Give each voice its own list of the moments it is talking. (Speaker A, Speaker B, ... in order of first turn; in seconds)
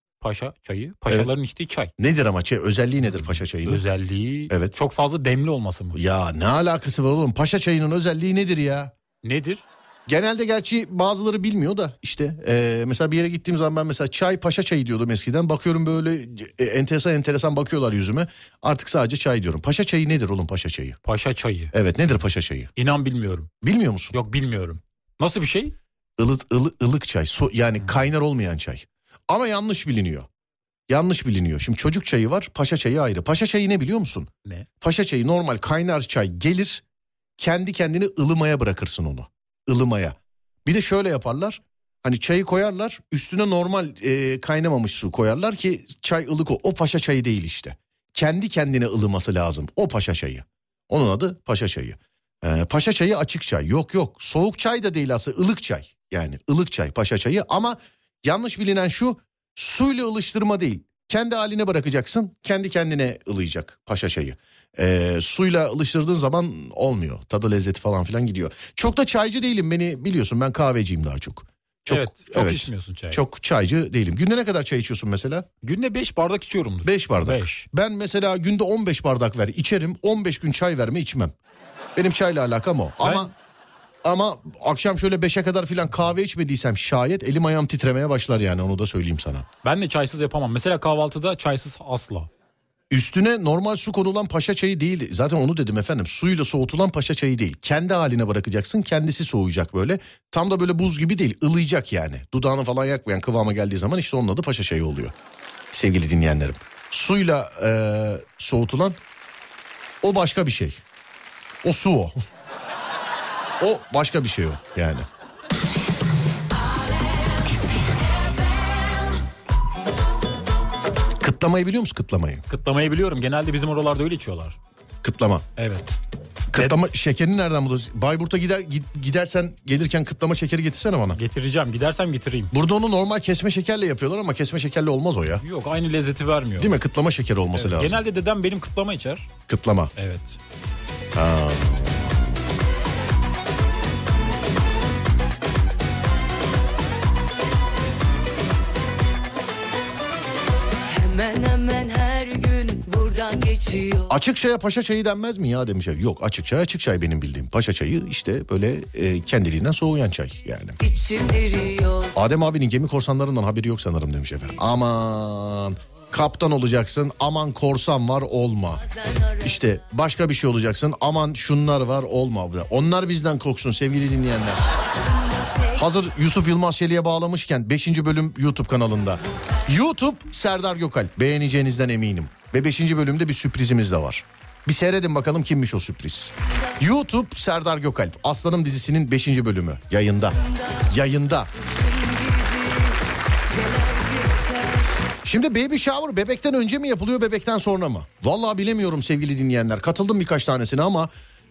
Speaker A: 0.2-1.9, 3.0-6.0, 9.2-9.7, 21.1-21.7, 22.8-23.5, 24.1-25.7, 71.9-73.2, 75.6-77.7, 83.0-83.3, 89.6-92.3, 122.5-124.6, 125.5-126.0, 131.1-132.5, 135.4-136.7, 137.6-139.3, 140.0-140.4
Speaker B: 2.0-3.8, 4.5-4.7, 5.9-8.9, 10.1-21.0, 21.7-22.7, 23.6-24.1, 26.2-30.3, 30.9-34.3, 34.8-36.8, 37.4-75.5, 76.8-81.3, 82.0-83.3, 84.0-89.5, 92.9-105.1, 105.7-109.0, 110.0-110.8, 111.6-112.2, 113.6-115.0, 121.2-122.4, 125.0-125.5, 126.5-131.2, 132.5-135.4, 136.6-138.0, 139.5-139.9, 141.1-142.3, 154.1-160.8, 162.1-168.8, 169.4-174.6, 175.7-190.4, 190.9-191.5, 195.2-201.1
Speaker C: 150.9-154.2, 160.8-162.1, 168.8-169.7, 174.7-175.9, 191.6-193.0, 193.5-194.9